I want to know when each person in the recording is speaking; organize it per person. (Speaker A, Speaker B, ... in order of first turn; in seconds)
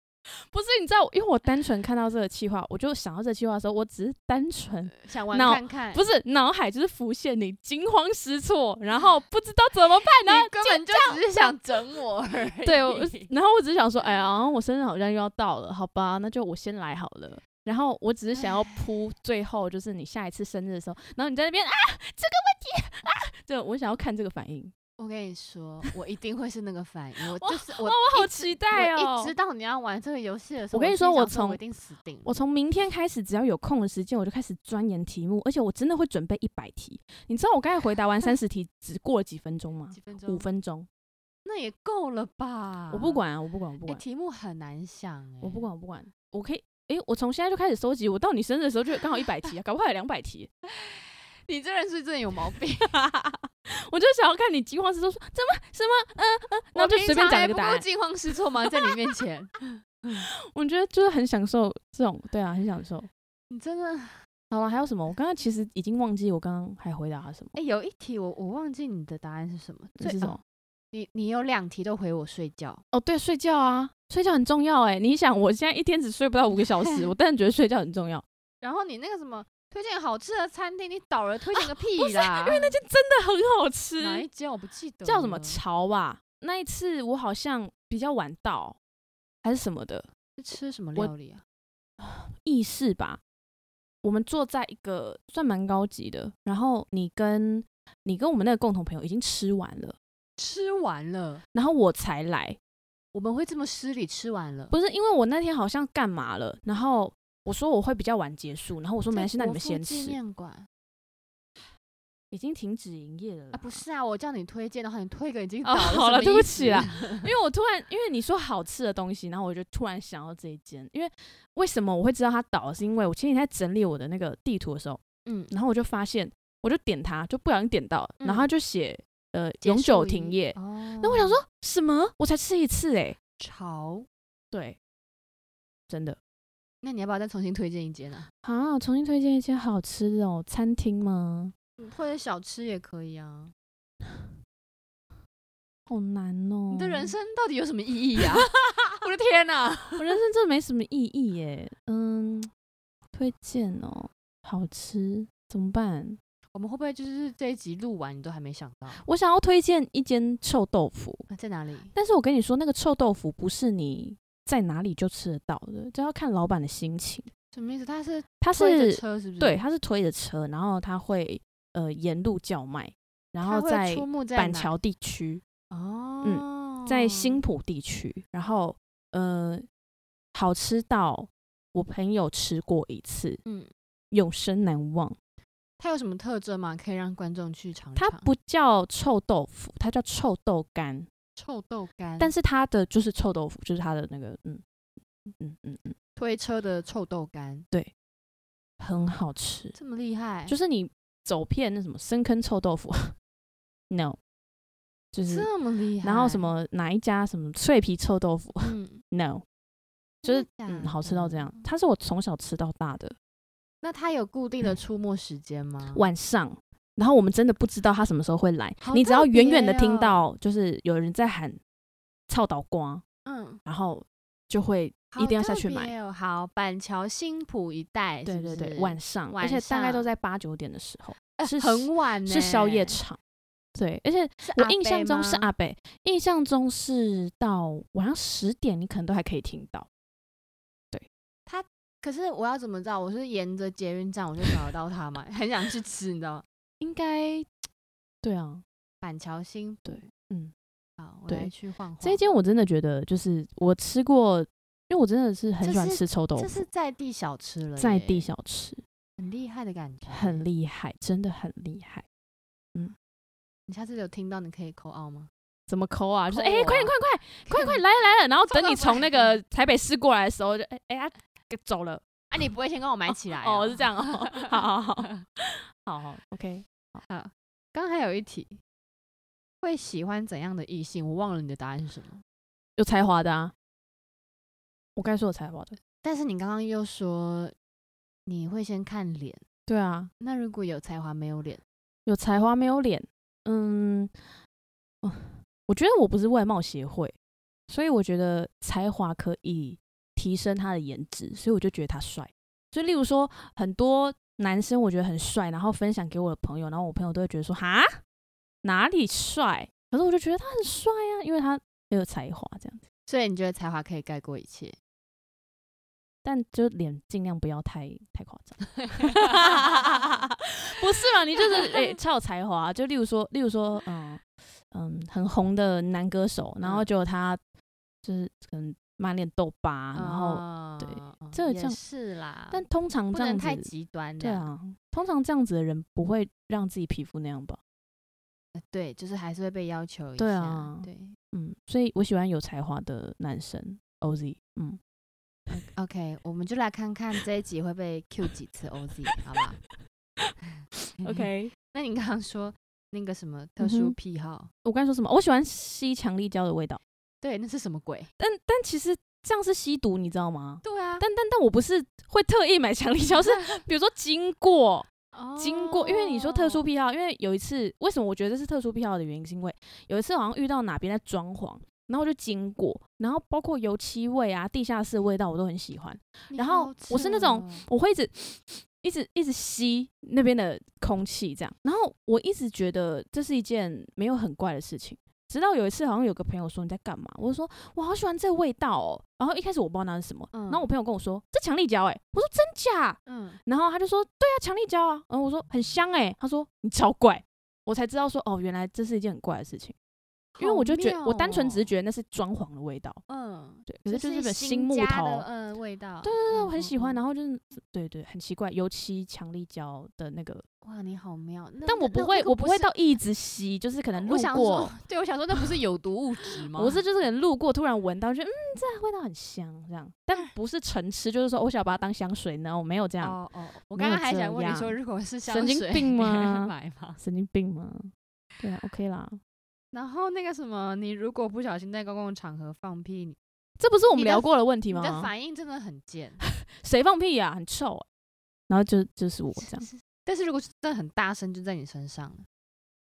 Speaker A: 0.5-11.5, 12.6-24.7, 27.3-29.3, 30.7-31.6, 32.2-40.9, 42.9-44.0, 45.4-50.5, 52.9-57.8, 60.2-63.1, 64.5-67.5, 70.0-70.4, 72.9-78.2, 81.5-84.2, 85.0-88.8, 89.4-90.1, 92.0-93.2, 94.0-100.0, 101.5-102.6, 104.7-110.2, 112.3-113.8, 115.6-133.2, 134.5-134.8, 135.9-136.2, 138.4-141.5, 145.9-147.1, 150.0-152.5, 153.1-156.2, 159.0-161.2, 161.9-167.3, 168.4-175.4, 176.2-179.7, 180.3-183.4, 184.1-185.2, 187.9-191.1, 192.2-194.6, 195.4-195.9, 198.8-199.8, 200.5-203.1, 203.9-204.2, 205.1-205.5, 206.0-209.4, 210.2-213.2, 215.9-221.6, 222.3-223.0, 223.6-225.9, 228.2-233.2, 233.7-239.9, 246.8-247.5, 248.2-248.6, 249.8-250.5, 251.3-256.6, 257.8-258.8, 260.1-262.0, 265.7-272.0, 273.1-277.0, 282.8-283.5, 284.9-285.8, 289.7-290.1, 292.1-294.1, 295.0-297.1, 297.7-307.9, 308.6-312.8, 316.2-327.4, 328.0-331.8, 332.5-337.6, 340.2-344.8, 351.0-351.5, 353.6-353.9, 354.6-356.8, 358.2-399.7, 400.4-403.0, 403.7-405.3, 406.0-410.4, 411.6-414.7, 416.6-423.2, 423.7-429.2, 433.6-435.1, 436.2-437.8, 438.5-439.7
Speaker B: 5.0-6.0, 10.2-13.3, 25.0-32.3, 39.9-40.4, 41.4-43.2, 43.9-45.6, 50.7-52.9, 56.7-60.2, 63.5-64.2, 67.5-70.4, 70.9-72.8, 76.6-77.1, 78.6-82.7, 84.0-85.6, 90.4-91.4, 100.4-101.4, 103.1-104.7, 109.1-110.7, 113.5-117.3, 125.2-125.5, 128.2-128.5, 129.6-131.4, 133.4-134.1, 136.8-138.3, 141.8-143.5, 146.7-150.1, 156.5-159.0, 161.3-161.9, 167.5-169.6, 173.4-174.7, 175.7-177.4, 185.8-188.3, 191.4-192.3, 196.2-197.7, 199.8-200.6, 205.3-206.5, 208.6-209.0, 210.2-211.7, 213.8-216.0, 218.8-220.2, 223.2-223.6, 225.1-230.1, 231.4-233.0, 234.4-235.5, 241.4-246.4, 249.0-250.1, 251.0-252.3, 255.6-258.3, 259.2-260.4, 263.7-265.3, 266.3-266.9, 267.5-267.8, 268.5-269.4, 272.3-274.6, 277.1-278.6, 279.6-282.2, 286.0-287.5, 288.2-289.4, 290.2-291.6, 313.1-314.8, 319.1-319.4, 326.6-326.9, 329.9-334.5, 338.5-341.2, 345.6-349.6, 351.0-354.5, 357.2-358.1, 360.6-361.1, 363.2-363.6, 365.1-366.6, 376.3-377.6, 390.3-390.7, 393.1-393.4, 400.3-401.7, 403.1-407.0, 410.6-412.7, 414.0-416.8, 423.0-427.0, 429.7-433.2, 433.9-436.2, 439.4-442.2